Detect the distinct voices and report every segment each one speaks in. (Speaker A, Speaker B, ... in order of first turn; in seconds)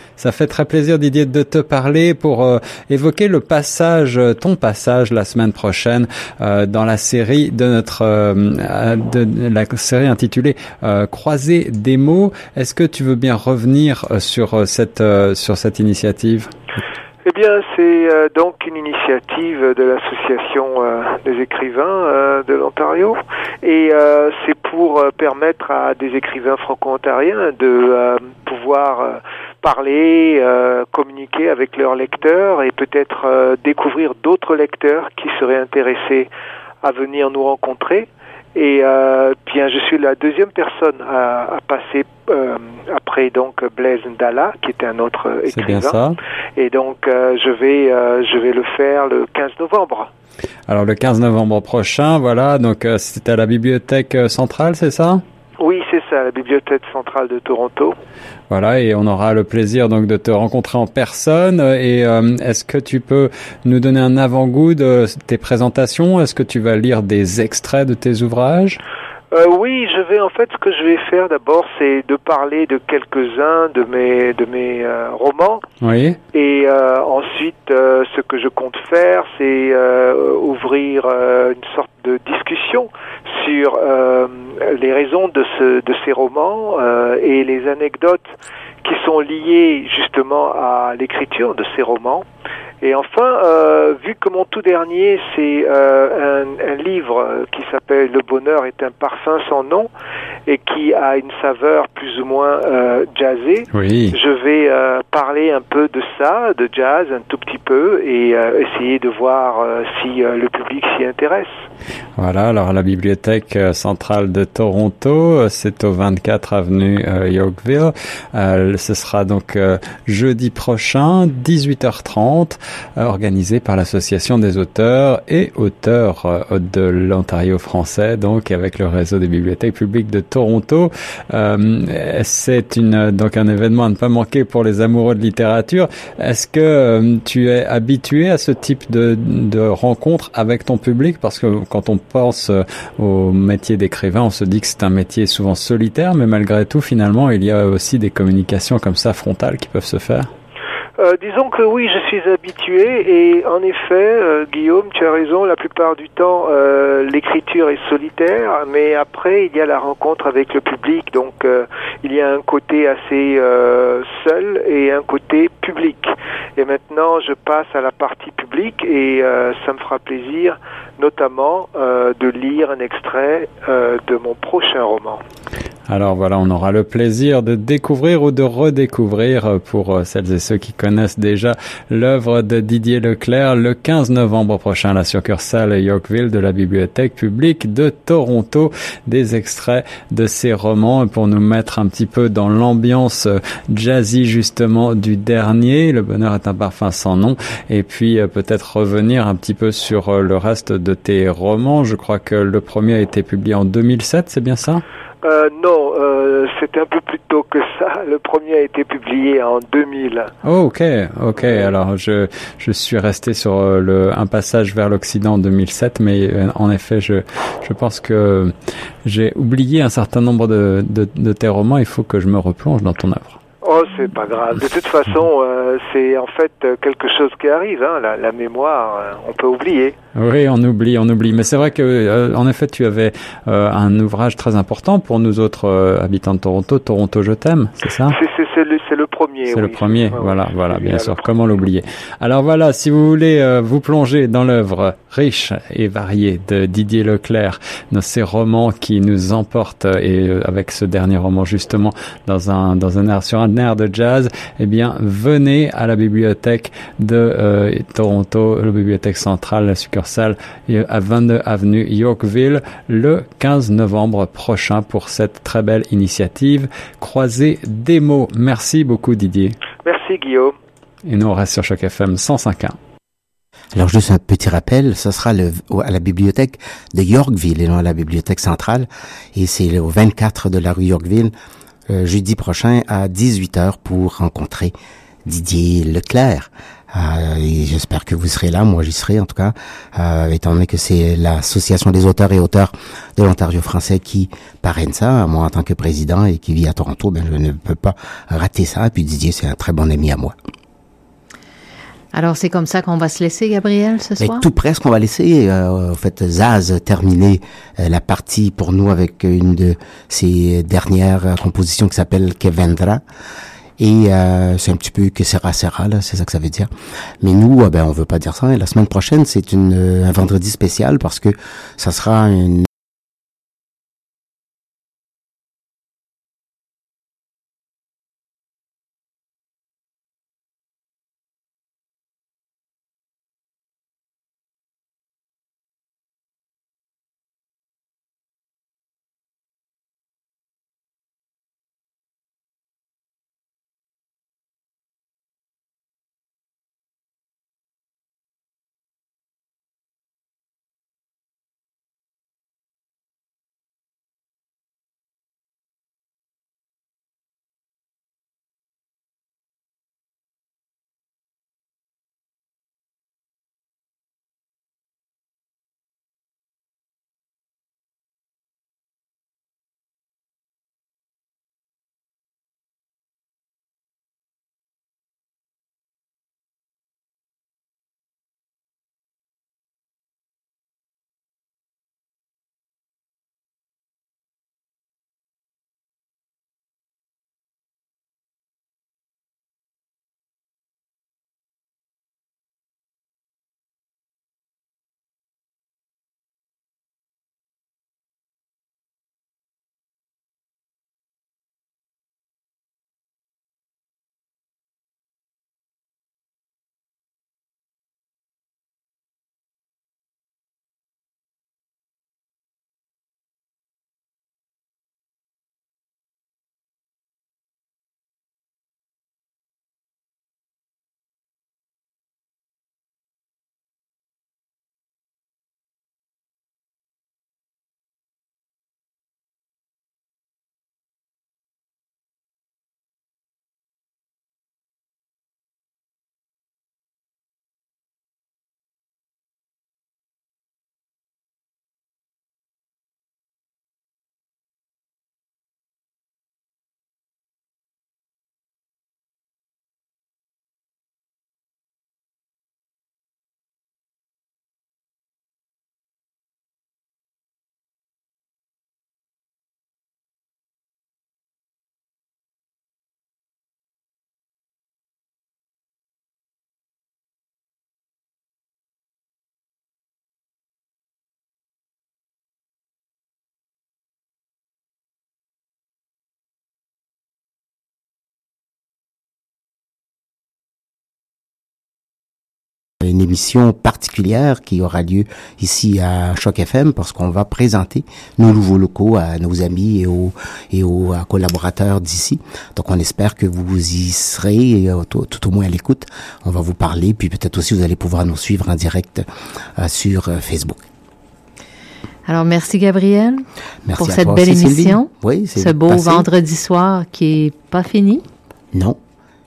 Speaker A: 0.2-16.5, 45.5-46.2, 50.7-55.2, 58.5-68.8, 75.8-76.2, 103.7-104.2, 112.2-150.3, 175.9-204.8, 210.4-218.5, 219.1-223.4, 230.2-238.2, 239.5-269.6, 271.1-272.8
Speaker B: 17.2-36.3, 36.8-46.0, 46.6-50.1, 55.6-58.0, 69.3-75.6, 76.3-88.3, 88.8-92.2, 92.8-99.9, 100.5-111.5, 151.0-175.2, 205.2-210.3, 223.6-229.9, 238.1-241.2, 269.9-270.6
Speaker C: 273.8-281.3, 281.9-284.7, 285.3-300.4, 304.2-313.0, 313.8-316.7, 317.2-322.7, 482.8-499.1, 499.6-500.6, 503.6-506.1, 508.5-508.8
Speaker D: 302.1-304.5, 502.1-503.2, 503.8-508.0